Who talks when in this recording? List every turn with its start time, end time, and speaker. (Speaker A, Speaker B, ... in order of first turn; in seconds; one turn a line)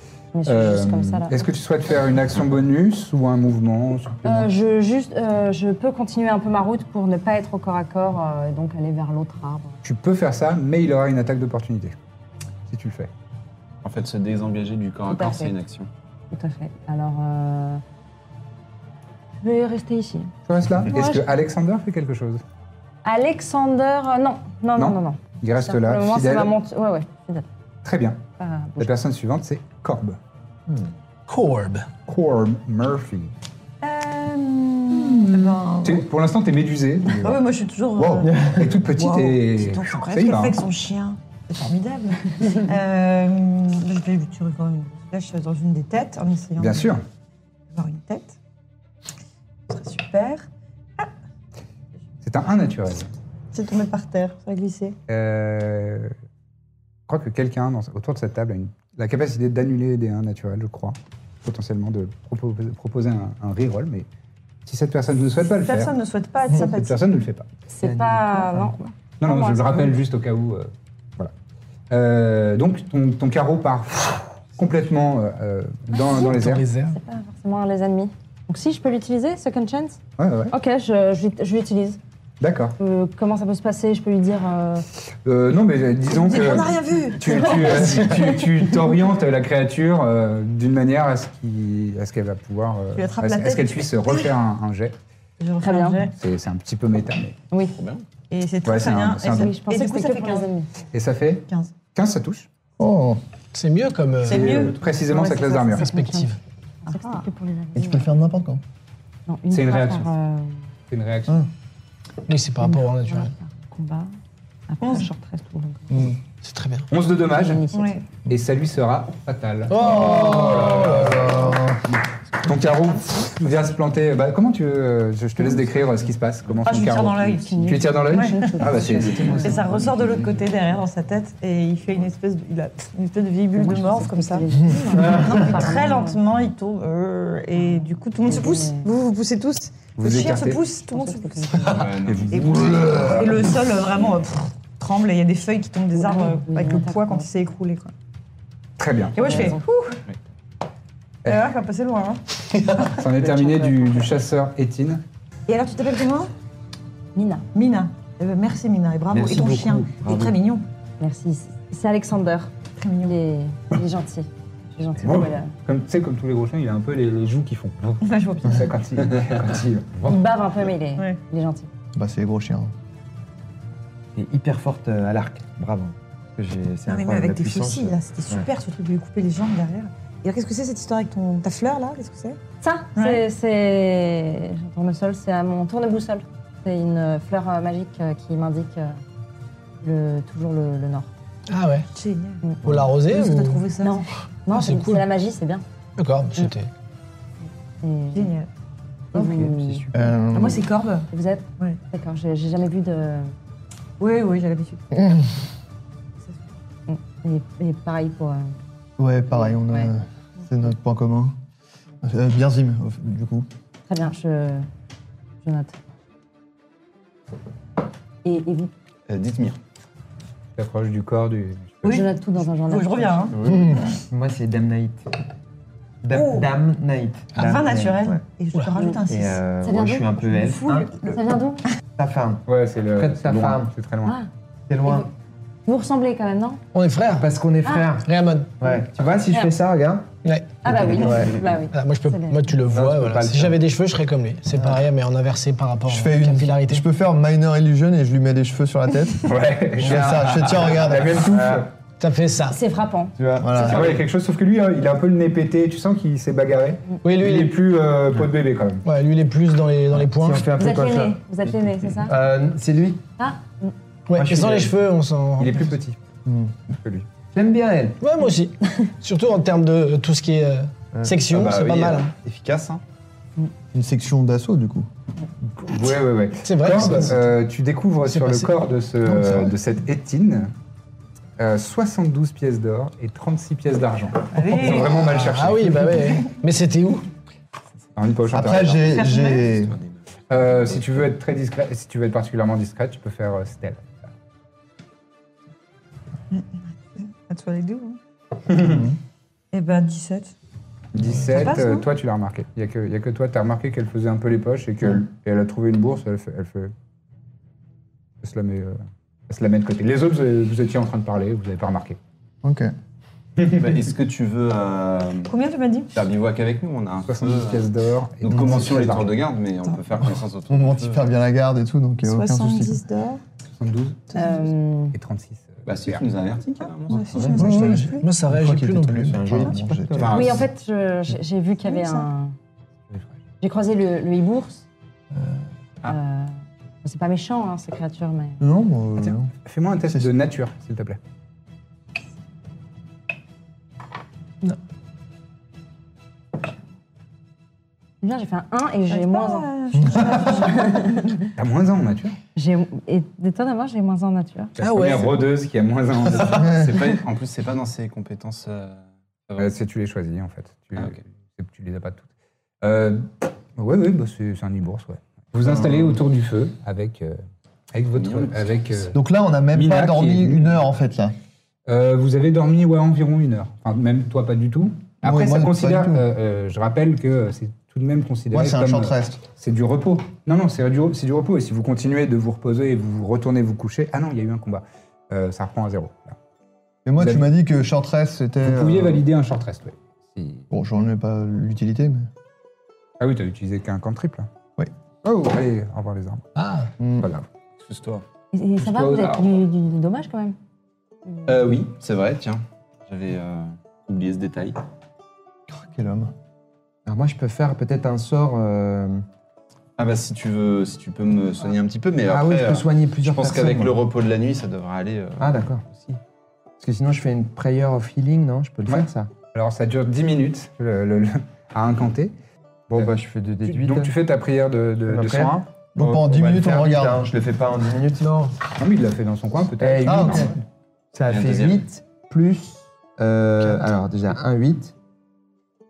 Speaker A: 0.3-1.4
Speaker B: 0.4-4.5
Speaker A: 4.2-9.8
Speaker B: 9.8-11.9
Speaker B: 12.7-13.1
Speaker C: 13.8-15.9
Speaker A: 15.1-15.5
Speaker A: 16.3-17.8
Speaker A: 19.4-20.3
Speaker B: 20.5-22.4
Speaker A: 20.9-21.2
Speaker A: 23.0-27.4
Speaker B: 24.8-26.5
Speaker B: 27.8-28.2
Speaker A: 28.4-28.9
Speaker B: 28.8-30.2
Speaker D: 31.3-31.9
Speaker B: 32.1-33.3
Speaker E: 33.8-36.1
Speaker B: 34.9-37.4
Speaker E: 37.0-47.0
Speaker B: 38.0-40.6
Speaker F: 38.3-38.6
Speaker B: 46.6-47.0
Speaker E: 47.7-48.4
Speaker E: 49.7-50.5
Speaker B: 52.2-53.1
Speaker E: 53.5-55.0
Speaker B: 55.1-56.1
Speaker B: 57.1-64.1
Speaker B: 64.7-65.9
Speaker E: 65.4-67.1
Speaker B: 66.5-67.5
Speaker A: 67.7-70.0
Speaker F: 67.9-68.4
Speaker B: 69.2-71.3
Speaker B: 71.9-76.6
Speaker A: 76.0-76.3
Speaker D: 76.1-77.0
Speaker A: 76.9-80.0
Speaker B: 80.2-80.5
Speaker A: 80.5-82.0
Speaker B: 82.4-82.8
Speaker A: 82.8-84.8
Speaker B: 85.2-95.0
Speaker E: 86.1-88.2
Speaker A: 87.4-87.9
Speaker E: 92.9-94.3
Speaker E: 95.4-96.1
Speaker A: 95.6-96.1
Speaker B: 96.1-97.4
Speaker A: 97.5-97.8
Speaker C: 97.7-98.0
Speaker E: 98.3-100.5
Speaker B: 98.6-99.5
Speaker A: 99.2-100.7
Speaker B: 100.9-102.5
Speaker E: 101.5-101.7
Speaker G: 102.8-103.2
Speaker D: 103.5-104.5
Speaker E: 104.2-105.7
Speaker B: 104.2-105.9
Speaker A: 105.2-108.2
Speaker D: 105.8-106.4
Speaker E: 106.8-107.3
Speaker G: 107.7-108.6
Speaker A: 109.3-110.6
Speaker B: 109.5-110.1
Speaker B: 110.9-111.4
Speaker D: 112.3-113.3
Speaker A: 112.6-114.1
Speaker A: 114.7-116.1
Speaker E: 114.8-115.1
Speaker G: 115.9-116.2
Speaker D: 116.4-116.9
Speaker B: 116.9-117.6
Speaker A: 117.3-118.0
Speaker E: 117.7-118.0
Speaker B: 118.3-121.6
Speaker D: 119.7-121.3
Speaker G: 119.8-121.8
Speaker B: 122.4-129.8
Speaker E: 126.6-128.6
Speaker A: 127.4-129.6
Speaker C: 128.8-130.5
Speaker E: 129.3-147.9
Speaker A: 133.5-136.2
Speaker G: 134.6-135.3
Speaker A: 137.5-138.9
Speaker B: 140.0-140.6
Speaker A: 140.8-141.8
Speaker C: 141.6-143.2
Speaker B: 141.7-143.6
Speaker A: 145.9-147.3
Speaker B: 148.8-149.5
Speaker E: 149.1-150.0
Speaker A: 149.2-149.6
Speaker E: 151.2-152.2
Speaker B: 152.9-155.0
Speaker A: 153.2-154.1
Speaker E: 155.5-156.3
Speaker A: 157.1-157.4
Speaker E: 157.5-160.6
Speaker F: 159.1-160.3
Speaker A: 161.0-162.5
Speaker E: 162.8-163.2
Speaker A: 163.0-165.5
Speaker B: 165.0-170.2
Speaker E: 168.0-168.7
Speaker A: 170.1-171.7
Speaker G: 171.9-172.7
Speaker F: 174.1-178.5
Speaker E: 176.9-182.4
Speaker A: 182.6-189.0
Speaker E: 182.9-183.2
Speaker A: 189.8-191.1
Speaker D: 191.5-191.9
Speaker E: 191.9-192.4
Speaker D: 192.6-193.6
Speaker E: 193.0-194.0
Speaker A: 193.8-195.6
Speaker D: 194.5-195.0
Speaker D: 196.0-196.7
Speaker A: 197.8-198.3
Speaker E: 198.1-198.5
Speaker E: 199.1-199.4
Speaker A: 199.1-199.9
Speaker C: 199.2-200.0
Speaker G: 199.9-200.7
Speaker E: 200.3-201.1
Speaker A: 201.1-203.3
Speaker E: 204.0-205.0
Speaker A: 206.9-208.6
Speaker G: 209.0-211.3
Speaker A: 209.3-209.9
Speaker G: 212.0-213.5
Speaker A: 213.9-214.7
Speaker A: 215.4-215.8
Speaker A: 218.2-218.7
Speaker C: 219.1-219.6
Speaker B: 220.6-222.1
Speaker E: 221.8-222.1
Speaker A: 221.8-223.3
Speaker E: 222.7-223.4
Speaker C: 223.3-223.6
Speaker G: 223.4-223.8
Speaker F: 224.1-225.1
Speaker F: 226.0-228.2
Speaker E: 226.1-226.5
Speaker E: 227.3-229.4
Speaker A: 228.7-229.0
Speaker F: 229.1-230.9
Speaker A: 229.6-230.3
Speaker E: 230.3-231.2
Speaker A: 230.9-231.7
Speaker F: 232.0-233.7
Speaker B: 232.5-234.2
Speaker F: 234.7-235.1
Speaker A: 234.8-235.1
Speaker A: 235.7-236.6
Speaker D: 236.7-237.3
Speaker F: 237.1-238.1
Speaker D: 238.0-238.5
Speaker F: 238.6-240.1
Speaker D: 240.2-246.8
Speaker A: 240.6-242.5
Speaker F: 240.7-241.3
Speaker F: 242.7-243.5
Speaker G: 245.8-251.5
Speaker B: 249.2-251.7
Speaker F: 251.3-251.6
Speaker D: 252.0-252.6
Speaker A: 252.5-253.1
Speaker F: 253.2-254.0
Speaker G: 253.4-253.9
Speaker B: 253.6-258.8
Speaker D: 257.0-257.5
Speaker D: 258.9-260.5
Speaker F: 260.1-261.2
Speaker A: 260.6-262.1
Speaker F: 262.0-263.0
Speaker A: 263.2-263.7
Speaker D: 264.1-265.7
Speaker F: 264.1-264.7
Speaker B: 265.4-266.0
Speaker G: 266.2-266.5
Speaker B: 266.7-267.1
Speaker F: 267.3-268.0
Speaker D: 268.0-272.1
Speaker C: 271.3-272.8
Speaker G: 273.7-274.9
Speaker B: 275.4-280.5
Speaker D: 276.4-277.3
Speaker D: 278.0-278.5
Speaker B: 281.4-286.0
Speaker E: 284.3-285.2
Speaker D: 285.1-287.1
Speaker B: 287.9-289.0
Speaker G: 288.3-289.8
Speaker C: 288.6-288.8
Speaker E: 288.8-289.5
Speaker C: 289.4-291.1
Speaker B: 290.3-294.1
Speaker E: 296.3-298.0
Speaker G: 298.6-299.0
Speaker E: 299.5-300.3
Speaker B: 300.9-306.7
Speaker E: 301.3-301.9
Speaker B: 308.2-312.0
Speaker G: 312.4-312.7
Speaker C: 313.4-315.3
Speaker E: 315.3-315.9
Speaker C: 315.9-321.1
Speaker B: 317.1-319.1
Speaker G: 318.3-318.6
Speaker G: 320.5-322.8
Speaker E: 322.0-323.2
Speaker B: 323.6-324.3
Speaker A: 324.1-324.9
Speaker B: 324.9-326.1
Speaker C: 325.6-327.8
Speaker E: 326.6-328.1
Speaker F: 327.1-327.6
Speaker G: 327.3-330.2
Speaker D: 327.5-329.4
Speaker F: 329.1-330.4
Speaker C: 330.0-330.4
Speaker A: 330.1-332.3
Speaker E: 331.6-332.1
Speaker A: 333.4-334.6
Speaker A: 335.8-338.4
Speaker G: 338.4-339.3
Speaker B: 339.0-341.0
Speaker G: 339.8-340.1
Speaker A: 348.0-351.3
Speaker E: 348.9-351.1
Speaker G: 349.8-350.2
Speaker B: 351.3-352.2
Speaker A: 352.4-354.6
Speaker B: 354.6-356.8
Speaker D: 354.6-355.2
Speaker C: 356.1-359.5
Speaker B: 359.4-362.1
Speaker B: 362.6-367.2
Speaker B: 367.7-369.0
Speaker C: 367.9-368.8
Speaker G: 368.9-371.1
Speaker B: 369.5-370.7
Speaker B: 371.7-386.2
Speaker G: 375.0-376.0
Speaker G: 378.3-379.2
Speaker G: 386.8-389.0
Speaker B: 387.0-387.3
Speaker B: 388.4-390.5
Speaker G: 390.5-392.1
Speaker B: 393.0-394.3
Speaker B: 395.0-396.3
Speaker D: 396.3-396.7
Speaker G: 396.8-397.1
Speaker B: 397.0-397.3
Speaker C: 397.6-398.0
Speaker A: 398.3-400.4
Speaker B: 398.6-399.3
Speaker A: 401.1-401.4
Speaker C: 401.2-404.6
Speaker G: 405.5-406.1
Speaker F: 406.9-409.0
Speaker C: 409.8-416.0
Speaker F: 412.1-413.8
Speaker F: 415.2-415.6
Speaker F: 416.6-419.1
Speaker B: 418.7-422.1
Speaker F: 422.7-423.9
Speaker B: 423.4-425.5
Speaker F: 424.9-428.3
Speaker G: 425.7-427.0
Speaker B: 428.6-430.4
Speaker F: 429.6-430.3
Speaker G: 429.8-430.3
Speaker F: 430.9-434.7
Speaker C: 431.1-431.6